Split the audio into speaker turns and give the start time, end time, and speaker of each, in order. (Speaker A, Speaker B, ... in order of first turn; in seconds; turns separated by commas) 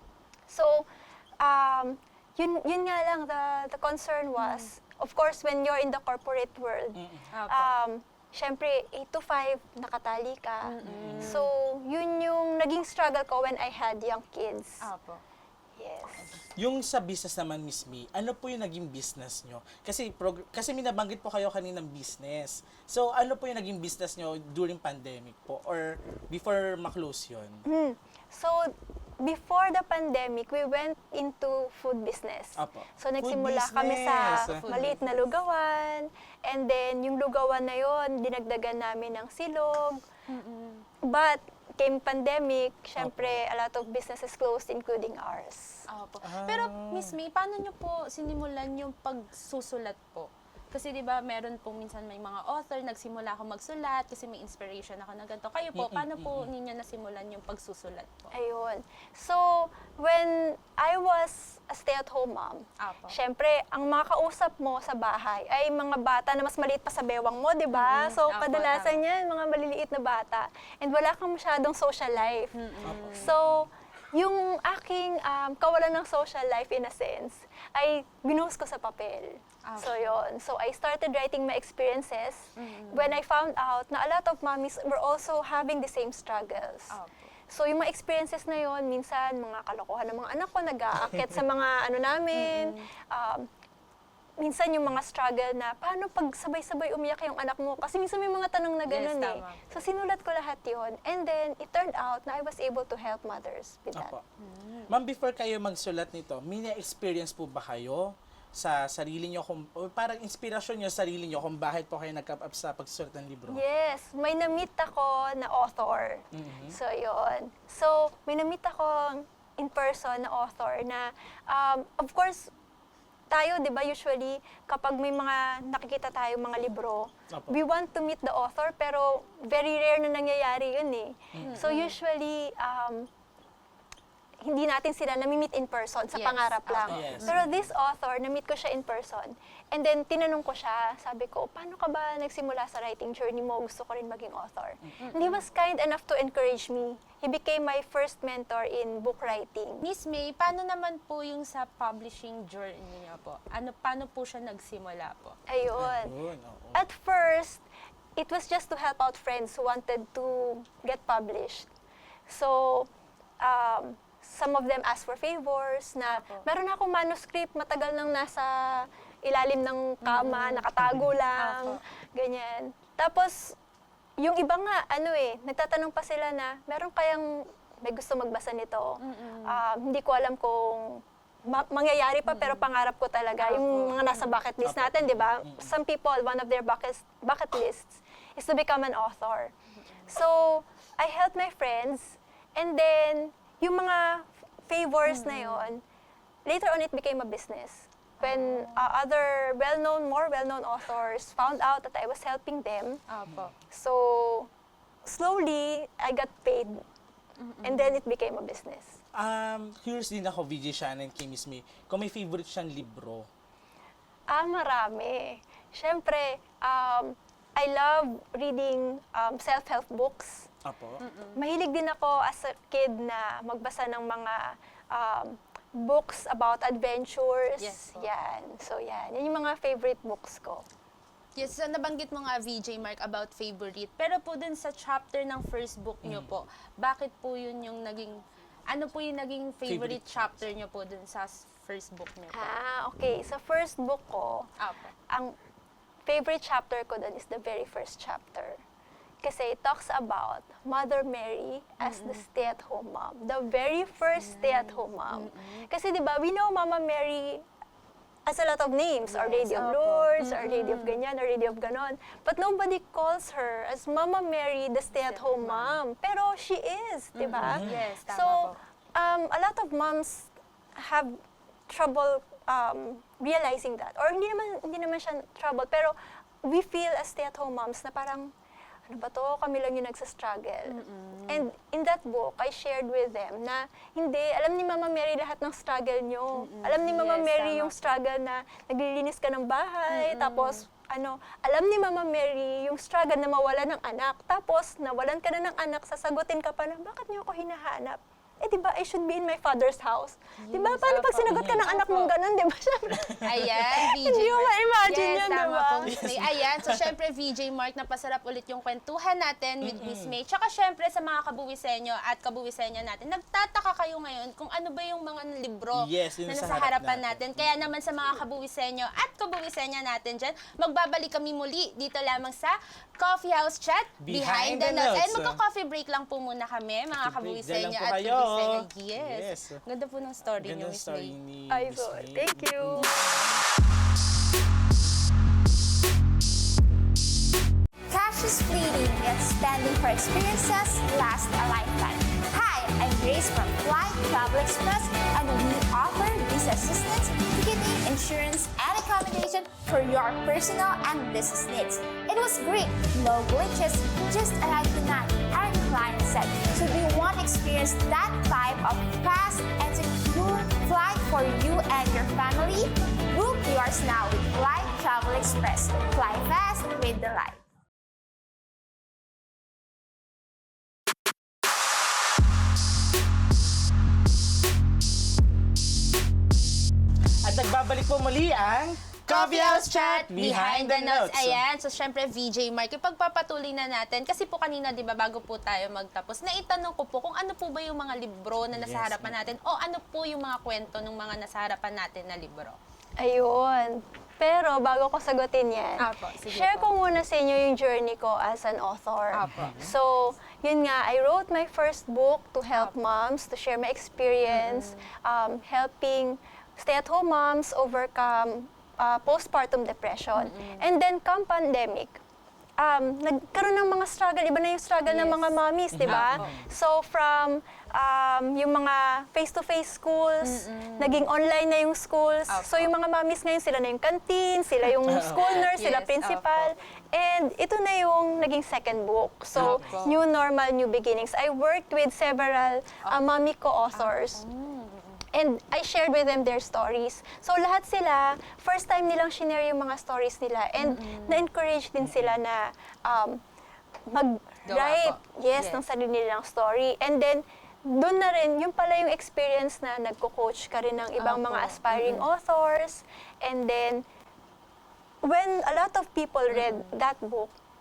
Speaker A: 0.5-0.9, Speaker A: 1.4-14.8, Speaker B: 4.4-4.7, Speaker C: 7.0-7.3, Speaker B: 7.3-7.7, Speaker B: 10.6-11.5, Speaker C: 10.8-11.3, Speaker B: 14.8-15.2, Speaker A: 15.8-16.3, Speaker C: 16.6-27.6, Speaker A: 27.6-40.0, Speaker C: 32.6-34.6, Speaker B: 34.4-35.1, Speaker B: 40.3-40.9, Speaker A: 41.0-45.8, Speaker C: 43.0-43.4, Speaker B: 45.9-58.3, Speaker C: 46.2-47.1, Speaker C: 55.8-56.5, Speaker A: 58.3-87.0, Speaker B: 62.8-63.2, Speaker B: 67.7-69.0, Speaker B: 72.5-73.3, Speaker C: 72.8-73.7, Speaker B: 79.7-80.2, Speaker B: 82.6-83.2, Speaker B: 86.9-87.2, Speaker A: 87.5-93.5, Speaker B: 92.3-92.8, Speaker A: 94.4-104.1, Speaker B: 98.9-99.8, Speaker C: 103.9-104.2, Speaker B: 104.4-104.9, Speaker C: 104.9-113.6, Speaker A: 113.5-122.5, Speaker C: 116.3-116.8, Speaker A: 123.3-133.1, Speaker C: 127.3-127.6, Speaker C: 131.3-131.7, Speaker B: 131.4-132.0, Speaker A: 134.4-149.8, Speaker B: 136.1-137.4, Speaker C: 136.9-137.6, Speaker B: 145.0-145.4, Speaker B: 149.8-155.4, Speaker A: 155.5-156.1, Speaker C: 155.8-156.8, Speaker A: 156.7-157.6, Speaker A: 158.2-161.7, Speaker A: 162.3-162.9, Speaker A: 163.4-173.6, Speaker B: 166.1-166.4, Speaker B: 170.0-170.7, Speaker C: 170.8-171.1, Speaker B: 171.4-171.8, Speaker A: 174.2-189.5, Speaker B: 179.0-179.6, Speaker B: 182.3-182.7, Speaker B: 183.4-184.4, Speaker C: 184.6-185.7, Speaker B: 189.8-190.1, Speaker A: 190.1-195.8, Speaker B: 195.1-195.7, Speaker A: 196.4-203.0, Speaker B: 198.2-198.9, Speaker B: 203.1-203.5, Speaker A: 203.7-204.5, Speaker A: 205.0-206.8, Speaker B: 207.4-208.0, Speaker A: 207.6-209.0, Speaker C: 209.1-213.3, Speaker A: 214.3-220.4, Speaker C: 220.6-221.0, Speaker B: 221.0-221.4, Speaker A: 221.3-230.6, Speaker B: 227.6-228.1, Speaker B: 231.3-242.5, Speaker C: 236.0-236.3, Speaker C: 239.7-240.4, Speaker A: 242.3-244.5, Speaker B: 244.6-244.9, Speaker A: 246.1-248.6, Speaker A: 249.2-257.4, Speaker B: 251.8-252.2, Speaker B: 254.2-255.7, Speaker A: 258.2-271.1, Speaker B: 259.1-261.0, Speaker B: 264.9-265.8, Speaker B: 267.1-268.6, Speaker C: 267.4-267.8, Speaker A: 271.7-278.3, Speaker A: 278.9-306.0, Speaker B: 280.7-281.5, Speaker B: 286.3-287.9, Speaker B: 289.9-290.6, Speaker B: 300.4-302.1, Speaker C: 301.3-301.6, Speaker B: 303.2-331.1, Speaker C: 305.9-306.9, Speaker C: 309.6-310.1, Speaker C: 315.7-317.4, Speaker C: 324.0-325.4, Speaker C: 327.0-329.6, Speaker C: 330.4-333.0, Speaker A: 331.5-332.9, Speaker B: 332.7-333.2, Speaker D: 337.9-367.4, Speaker C: 377.2-381.4, Speaker B: 379.1-392.6, Speaker C: 388.5-389.3, Speaker A: 393.0-412.0, Speaker B: 395.8-396.7, Speaker B: 399.1-399.7, Speaker C: 399.2-399.7, Speaker B: 404.3-404.8, Speaker B: 410.2-410.7, Speaker A: 412.6-434.2, Speaker B: 414.9-416.4, Speaker C: 415.7-416.4, Speaker B: 420.2-421.1, Speaker B: 422.3-422.7, Speaker C: 424.8-425.5, Speaker B: 425.1-426.5, Speaker B: 429.3-429.9, Speaker C: 429.4-429.9, Speaker B: 433.7-435.0, Speaker A: 435.1-443.2, Speaker B: 440.6-441.2, Speaker C: 441.8-442.2, Speaker A: 443.9-453.8, Speaker B: 444.5-445.6, Speaker B: 451.0-452.1, Speaker A: 455.0-457.3, Speaker B: 456.3-456.8